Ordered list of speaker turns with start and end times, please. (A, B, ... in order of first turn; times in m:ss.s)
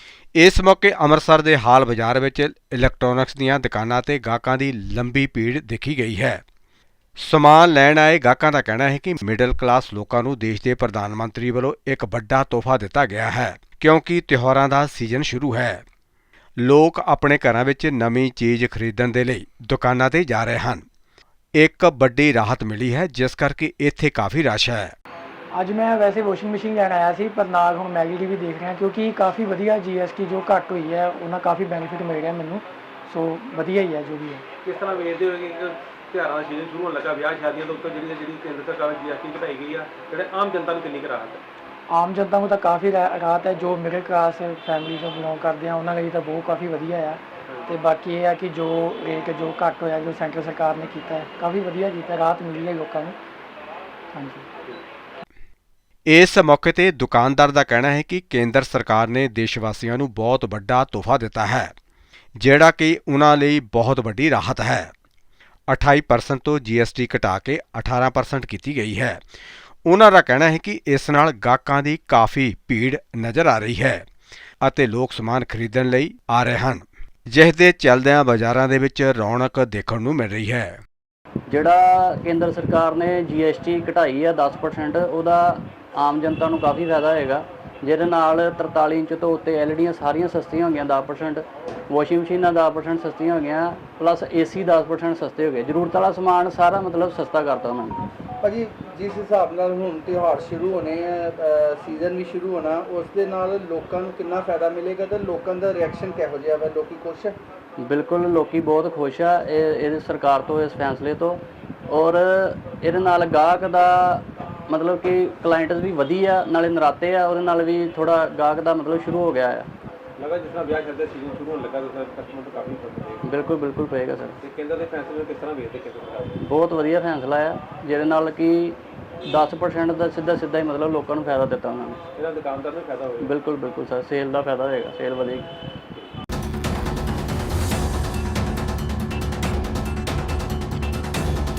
0:00.4-0:06.4 A
0:07.2-0:15.8 A
0:16.6-0:20.8 A
0:21.6-0:24.9 A
0:25.5-0:34.4 B
0:34.6-0:41.4 C
0:41.9-0:53.2 B
0:54.1-0:54.5 B
0:56.1-1:01.7 A
1:02.4-1:04.9 A
1:05.7-1:09.2 A
1:09.9-1:14.0 A
1:14.6-1:20.8 A
1:21.5-1:38.0 D
1:38.4-1:47.4 E
1:47.8-1:59.7 D
2:00.2-2:03.3 C
2:03.2-2:04.4 D
2:04.4-2:06.4 C
2:06.4-2:12.0 D
2:12.2-2:13.3 C
2:13.2-2:15.5 D